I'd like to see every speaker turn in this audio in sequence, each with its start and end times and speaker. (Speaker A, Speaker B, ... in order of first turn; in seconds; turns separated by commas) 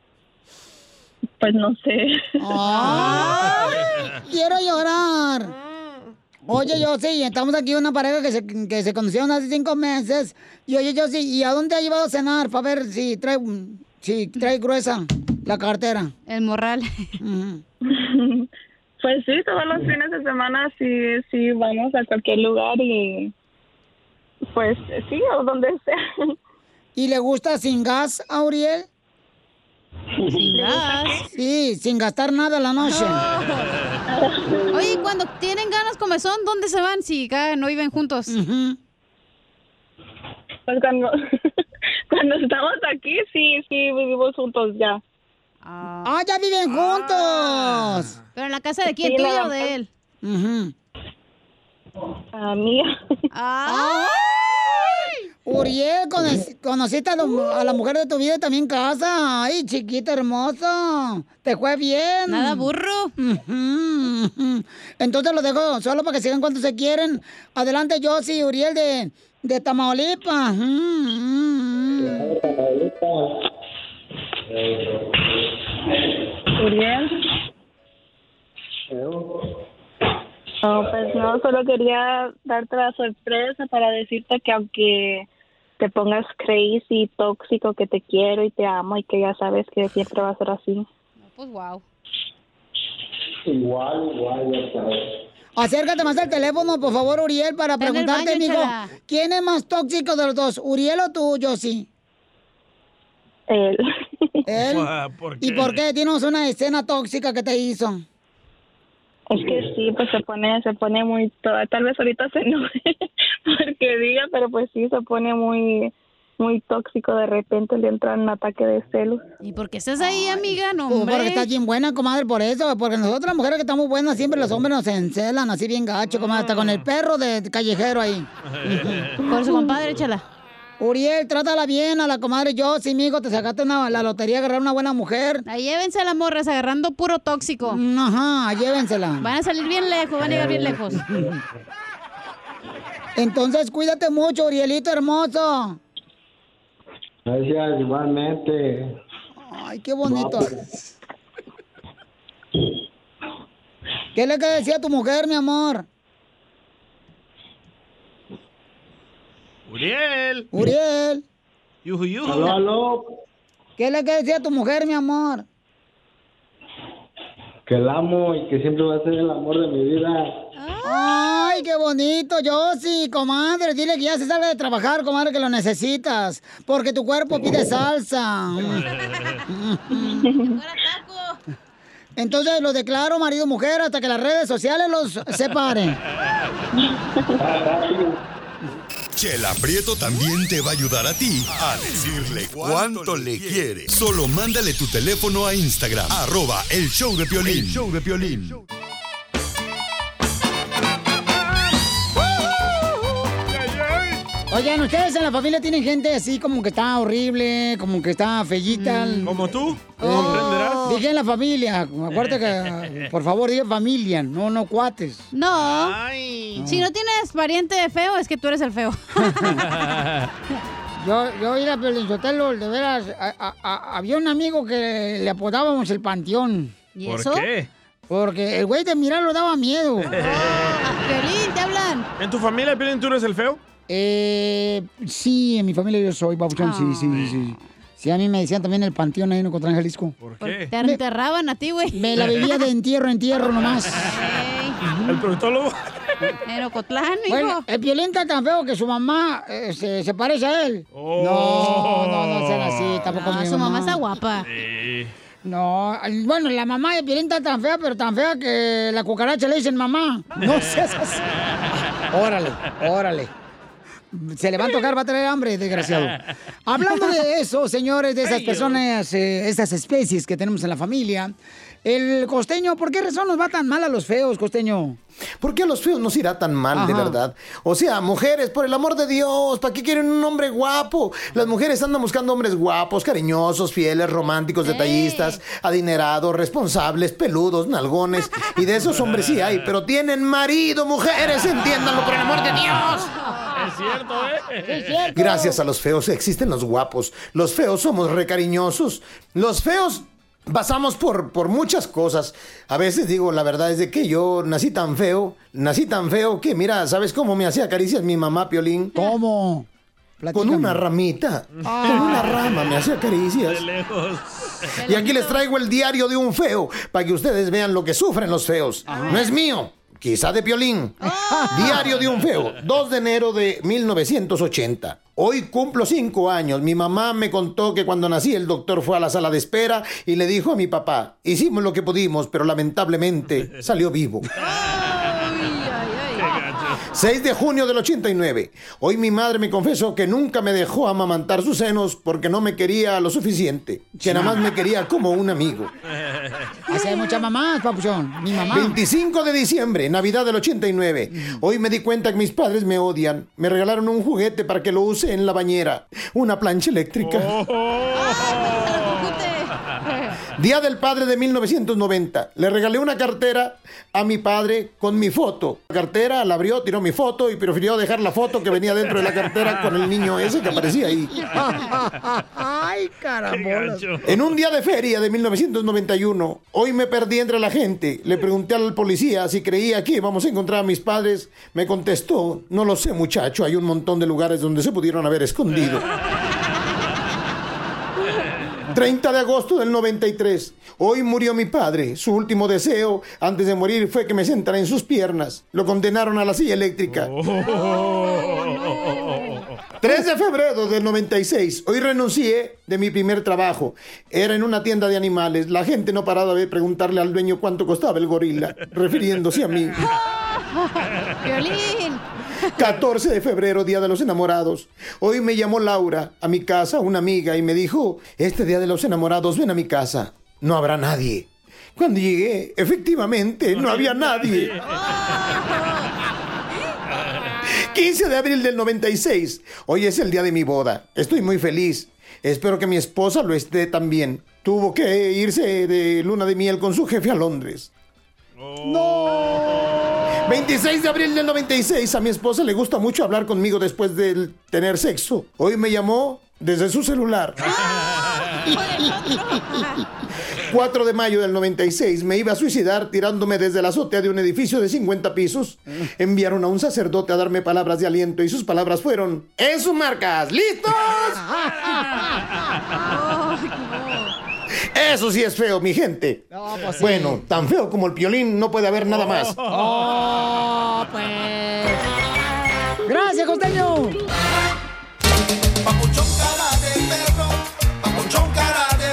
Speaker A: 1.4-2.5, Speaker B: 2.4-5.5, Speaker C: 2.7-3.7, Speaker D: 2.8-4.1, Speaker B: 6.5-16.1, Speaker C: 16.3-17.1, Speaker B: 17.2-17.6, Speaker A: 17.9-18.5, Speaker A: 19.0-23.3, Speaker A: 24.5-26.4, Speaker B: 27.0-28.9, Speaker C: 30.3-31.2, Speaker A: 30.6-31.1, Speaker B: 31.3-33.2, Speaker C: 32.8-33.7, Speaker A: 34.1-34.9, Speaker C: 34.7-38.4, Speaker B: 38.3-38.8, Speaker A: 40.7-41.2, Speaker A: 42.1-45.0, Speaker C: 45.6-46.1, Speaker B: 46.0-48.1, Speaker D: 46.7-48.0, Speaker C: 48.4-49.9, Speaker A: 48.9-49.7, Speaker B: 50.2-50.7, Speaker A: 52.3-52.9, Speaker C: 53.3-55.1, Speaker B: 53.6-54.5, Speaker B: 55.5-72.3, Speaker C: 62.3-63.1, Speaker E: 72.0-73.4, Speaker E: 74.5-75.5, Speaker A: 76.6-77.1, Speaker E: 78.9-79.5, Speaker A: 80.6-85.3, Speaker A: 85.8-90.8, Speaker C: 91.3-91.8, Speaker E: 93.5-95.1, Speaker B: 95.6-101.9, Speaker C: 97.8-98.9, Speaker A: 103.5-104.5, Speaker B: 104.5-104.9, Speaker D: 104.6-105.8, Speaker B: 105.4-108.0, Speaker A: 109.3-119.2, Speaker C: 119.4-121.5, Speaker B: 120.0-129.2, Speaker D: 126.1-126.8, Speaker D: 128.5-129.2, Speaker C: 129.2-130.2, Speaker B: 130.8-135.4, Speaker C: 135.5-137.8, Speaker B: 137.7-139.3, Speaker C: 139.2-141.0, Speaker E: 140.2-141.3, Speaker B: 141.1-141.4, Speaker B: 143.2-145.8, Speaker E: 147.3-149.0, Speaker B: 149.4-150.5, Speaker E: 150.0-150.7, Speaker B: 154.1-155.9, Speaker D: 159.7-160.5, Speaker B: 160.5-161.2, Speaker D: 161.8-162.5, Speaker E: 162.3-163.2, Speaker B: 163.8-165.4, Speaker E: 167.7-170.3, Speaker C: 170.6-171.6, Speaker B: 170.8-178.8, Speaker C: 178.9-179.4, Speaker B: 179.5-180.3, Speaker C: 180.0-181.4, Speaker A: 180.2-180.6, Speaker B: 182.2-186.0, Speaker A: 186.8-187.2, Speaker E: 187.4-188.2, Speaker F: 189.1-198.6, Speaker D: 203.5-204.2, Speaker B: 204.5-209.5, Speaker C: 208.7-209.4, Speaker D: 209.2-210.8, Speaker C: 210.0-211.0, Speaker B: 210.0-215.3, Speaker C: 215.3-216.0, Speaker D: 215.6-216.6, Speaker B: 216.6-216.9, Speaker C: 216.6-219.7, Speaker B: 219.3-219.6, Speaker D: 219.7-220.3, Speaker B: 221.0-226.8, Speaker C: 226.9-227.5, Speaker D: 227.1-227.7, Speaker B: 228.1-230.2, Speaker D: 230.1-230.8, Speaker C: 230.1-232.1, Speaker D: 232.2-233.6, Speaker B: 233.9-240.2, Speaker C: 236.6-237.3, Speaker D: 237.1-237.4, Speaker D: 240.2-240.7, Speaker C: 240.4-242.7, Speaker B: 241.9-244.1, Speaker C: 244.0-244.8, Speaker D: 244.8-245.8, Speaker C: 246.4-247.6, Speaker B: 247.3-254.0, Speaker D: 250.9-253.1, Speaker C: 253.1-254.5, Speaker D: 254.5-255.1, Speaker B: 255.4-261.2, Speaker B: 262.1-263.3, Speaker B: 264.1-275.0, Speaker D: 268.2-268.8, Speaker G: 275.4-293.1, Speaker B: 276.7-277.2, Speaker C: 284.6-285.4, Speaker D: 288.9-289.6, Speaker D: 293.5-295.0, Speaker B: 294.6-295.6, Speaker G: 295.1-308.9, Speaker B: 308.9-309.7, Speaker B: 310.2-310.8, Speaker G: 310.3-313.6, Speaker D: 311.5-312.8, Speaker B: 311.6-312.4, Speaker D: 313.4-314.7, Speaker C: 314.8-315.5, Speaker G: 314.9-321.0, Speaker C: 318.9-319.4, Speaker B: 318.9-319.3, Speaker C: 321.0-321.9, Speaker B: 321.2-321.8, Speaker G: 321.5-334.3, Speaker D: 321.9-322.5, Speaker C: 334.4-336.4, Speaker D: 334.4-335.1, Speaker D: 336.2-336.8, Speaker G: 336.9-345.7, Speaker B: 343.9-344.5, Speaker D: 346.0-346.5, Speaker B: 346.7-348.8, Speaker C: 346.7-347.2, Speaker C: 348.3-348.7, Speaker G: 348.5-357.3, Speaker B: 351.1-351.4, Speaker D: 357.0-359.8, Speaker C: 357.9-360.2, Speaker G: 360.4-371.1, Speaker D: 369.0-369.8, Speaker B: 371.1-373.9, Speaker D: 373.3-374.2, Speaker G: 374.1-385.8, Speaker G: 388.7-397.1, Speaker D: 396.9-399.7, Speaker C: 397.5-399.4, Speaker G: 399.8-409.8, Speaker C: 409.9-412.1, Speaker G: 412.6-424.5, Speaker D: 423.5-425.2, Speaker C: 424.6-425.9, Speaker D: 426.9-427.3, Speaker G: 427.5-437.7, Speaker D: 438.4-439.9, Speaker B: 438.6-439.8, Speaker G: 440.2-447.5, Speaker C: 447.4-449.9, Speaker D: 447.5-448.4, Speaker G: 450.5-461.2, Speaker B: 461.2-462.2, Speaker D: 461.8-462.1, Speaker C: 462.8-464.1, Speaker G: 464.7-466.2, Speaker B: 466.3-467.2, Speaker G: 466.8-469.4, Speaker D: 468.9-470.1, Speaker B: 469.4-471.8, Speaker B: 472.9-474.0, Speaker D: 477.9-478.2